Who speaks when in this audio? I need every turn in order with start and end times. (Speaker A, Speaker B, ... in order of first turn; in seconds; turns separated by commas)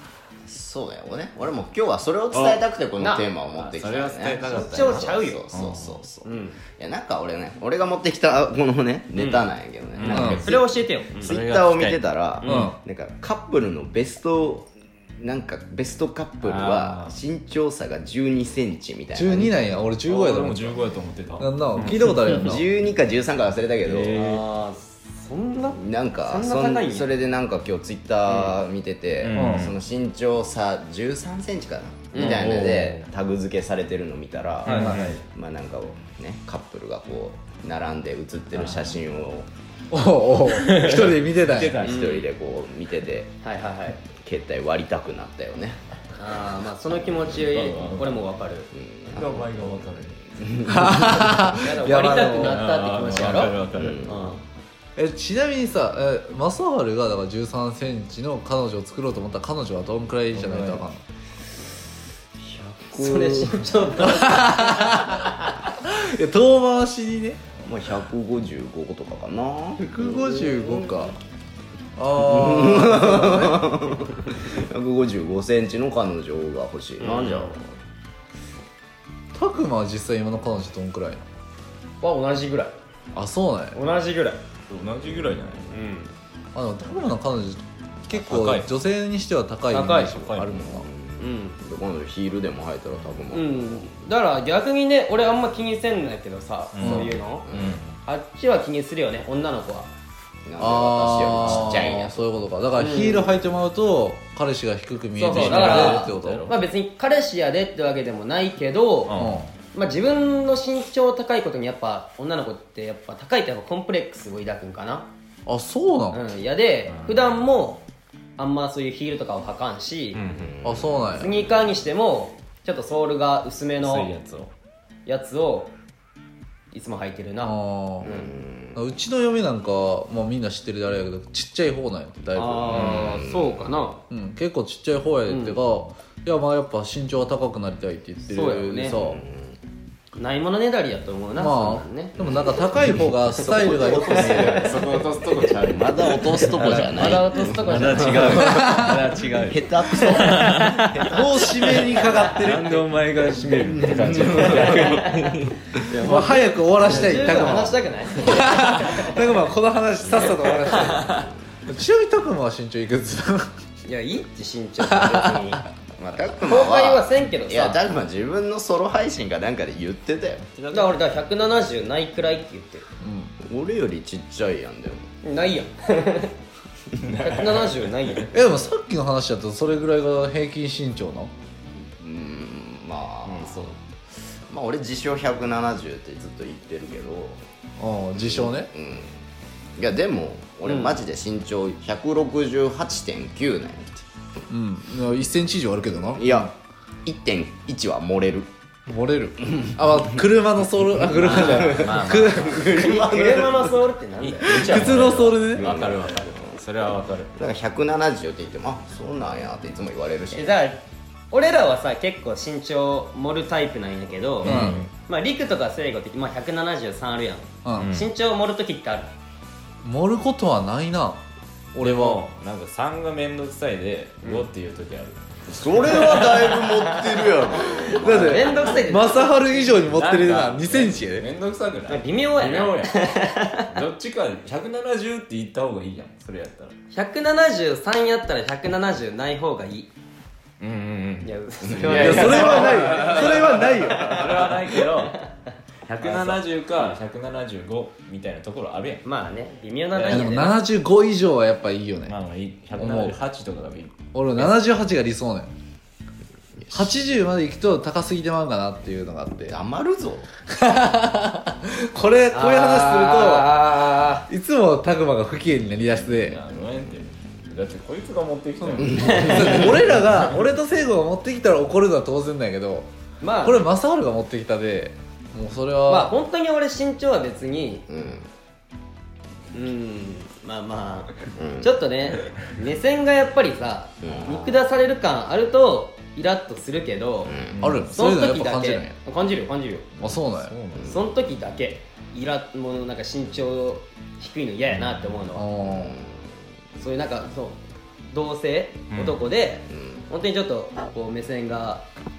Speaker A: 0.5-19.7, Speaker B: 2.3-2.6, Speaker C: 3.0-3.3, Speaker B: 3.4-6.0, Speaker C: 4.3-5.4, Speaker C: 6.2-6.6, Speaker C: 9.2-9.5, Speaker B: 9.9-10.6, Speaker D: 10.1-10.4, Speaker C: 10.3-11.3, Speaker B: 11.2-12.7, Speaker D: 12.4-12.8, Speaker B: 16.4-17.1, Speaker D: 19.1-20.8, Speaker B: 20.1-22.6, Speaker D: 21.4-22.7, Speaker A: 21.9-24.2, Speaker B: 23.8-24.4, Speaker C: 24.1-27.1, Speaker A: 25.7-39.5, Speaker C: 28.3-28.5, Speaker B: 29.2-29.8, Speaker D: 29.3-29.7, Speaker B: 32.1-33.1, Speaker C: 32.1-32.4, Speaker C: 34.6-35.2, Speaker B: 34.6-35.2, Speaker B: 38.5-38.9, Speaker D: 39.9-41.8, Speaker B: 40.5-42.3, Speaker A: 41.8-43.3, Speaker C: 41.9-42.2, Speaker C: 43.4-44.0, Speaker A: 44.2-45.8, Speaker C: 46.1-48.7, Speaker B: 47.3-48.2, Speaker A: 48.7-51.5, Speaker B: 49.1-50.2, Speaker D: 50.7-52.6, Speaker C: 51.5-54.4, Speaker B: 52.3-54.2, Speaker A: 53.7-54.3, Speaker D: 55.0-61.0, Speaker B: 60.3-60.8, Speaker A: 62.4-63.9, Speaker C: 62.9-65.2, Speaker D: 64.0-65.2, Speaker D: 65.7-67.4, Speaker A: 67.6-71.1, Speaker D: 69.8-71.2, Speaker D: 72.0-73.7, Speaker A: 72.2-77.6, Speaker C: 77.0-77.6, Speaker D: 79.3-81.2, Speaker C: 82.0-82.7, Speaker D: 83.1-83.8, Speaker C: 83.7-84.4, Speaker B: 84.7-85.8, Speaker C: 85.7-86.1, Speaker D: 86.5-90.9, Speaker B: 88.1-88.7, Speaker C: 89.7-90.2, Speaker B: 90.0-90.6, Speaker A: 90.5-93.9, Speaker C: 91.2-91.6, Speaker C: 93.3-97.5, Speaker B: 96.7-98.0, Speaker D: 96.8-97.1, Speaker A: 97.4-97.8, Speaker C: 98.0-99.9, Speaker A: 100.4-102.2, Speaker D: 100.6-106.5, Speaker C: 101.5-101.8, Speaker C: 102.8-103.4, Speaker C: 105.1-109.2, Speaker B: 105.3-106.5, Speaker B: 109.0-109.5, Speaker D: 109.1-109.5, Speaker C: 109.7-115.1, Speaker D: 115.5-116.2, Speaker C: 116.1-117.8, Speaker B: 116.9-117.3, Speaker C: 118.4-120.2, Speaker B: 120.1-120.6, Speaker A: 120.3-121.4, Speaker D: 120.6-121.3, Speaker C: 121.1-124.1, Speaker B: 123.8-124.5, Speaker C: 125.0-125.7, Speaker C: 126.7-128.3, Speaker D: 127.4-128.1, Speaker A: 128.0-128.8, Speaker D: 128.7-133.1, Speaker C: 132.3-134.0, Speaker A: 132.7-133.7, Speaker D: 134.1-139.2, Speaker C: 135.3-135.6, Speaker C: 138.2-139.0, Speaker A: 138.9-139.6, Speaker C: 140.1-142.2, Speaker D: 141.3-144.6, Speaker A: 142.2-144.9, Speaker C: 143.4-145.0, Speaker B: 144.4-150.9, Speaker A: 145.5-151.5, Speaker D: 146.6-146.9, Speaker C: 146.7-148.5, Speaker D: 148.3-149.0, Speaker D: 151.0-152.8, Speaker C: 151.7-152.5, Speaker B: 152.4-155.3, Speaker A: 153.4-156.1, Speaker C: 154.3-155.1, Speaker C: 155.9-159.2, Speaker D: 155.9-161.1, Speaker D: 161.7-163.5, Speaker C: 163.8-165.6, Speaker D: 164.8-165.6, Speaker A: 165.9-170.5, Speaker C: 166.4-167.8, Speaker B: 170.6-171.0, Speaker C: 170.7-172.8, Speaker D: 173.0-173.3, Speaker A: 173.4-175.1, Speaker C: 175.2-176.3, Speaker B: 177.0-177.8, Speaker C: 177.1-178.4, Speaker D: 178.3-181.3, Speaker A: 182.0-183.8, Speaker B: 183.2-183.7, Speaker A: 184.5-187.4, Speaker D: 187.8-188.7, Speaker A: 188.1-189.1, Speaker A: 189.8-194.1, Speaker C: 190.6-191.0, Speaker D: 194.5-196.5, Speaker A: 196.1-196.5, Speaker A: 197.0-198.5, Speaker D: 198.9-202.7, Speaker A: 201.0-203.9, Speaker C: 201.2-204.6, Speaker B: 201.7-202.2, Speaker B: 204.2-207.3, Speaker D: 204.4-205.7, Speaker A: 204.4-206.6, Speaker A: 207.3-210.6, Speaker C: 210.3-219.1, Speaker B: 214.4-214.9, Speaker D: 214.4-214.8, Speaker D: 217.6-217.9, Speaker B: 217.8-218.1, Speaker D: 219.8-221.2, Speaker D: 221.7-222.2, Speaker B: 221.8-225.2, Speaker A: 225.5-228.8, Speaker C: 225.8-229.4, Speaker D: 227.9-231.3, Speaker B: 229.7-233.0, Speaker C: 231.9-233.7, Speaker B: 233.7-236.7, Speaker C: 236.9-239.9, Speaker B: 240.6-241.3, Speaker C: 241.2-243.6, Speaker A: 241.6-243.1, Speaker D: 241.9-244.3, Speaker B: 241.9-245.2, Speaker A: 243.6-244.2, Speaker B: 245.8-249.0, Speaker C: 246.0-246.4, Speaker C: 249.0-250.6, Speaker B: 249.9-250.3, Speaker D: 250.1-252.2, Speaker B: 252.1-254.5, Speaker D: 252.8-253.2, Speaker D: 254.1-255.5, Speaker A: 256.6-257.1, Speaker D: 256.7-259.6, Speaker A: 259.5-260.3, Speaker D: 260.5-263.6, Speaker C: 262.3-264.3, Speaker D: 264.3-266.4, Speaker B: 266.0-270.1, Speaker D: 268.6-272.9, Speaker A: 268.8-269.7, Speaker C: 269.0-269.7, Speaker C: 273.2-273.7, Speaker D: 273.4-276.1, Speaker C: 275.9-277.9, Speaker A: 277.9-278.3, Speaker C: 279.5-287.3, Speaker A: 281.4-281.8, Speaker A: 284.0-284.6, Speaker A: 287.2-287.6, Speaker B: 287.5-287.9, Speaker D: 287.6-288.9, Speaker C: 287.9-289.9, Speaker D: 290.0-290.6, Speaker B: 290.3-290.9, Speaker A: 290.7-291.0, Speaker C: 290.8-295.4, Speaker D: 295.3-296.0, Speaker A: 295.6-296.3, Speaker C: 296.8-301.8, Speaker B: 298.9-299.2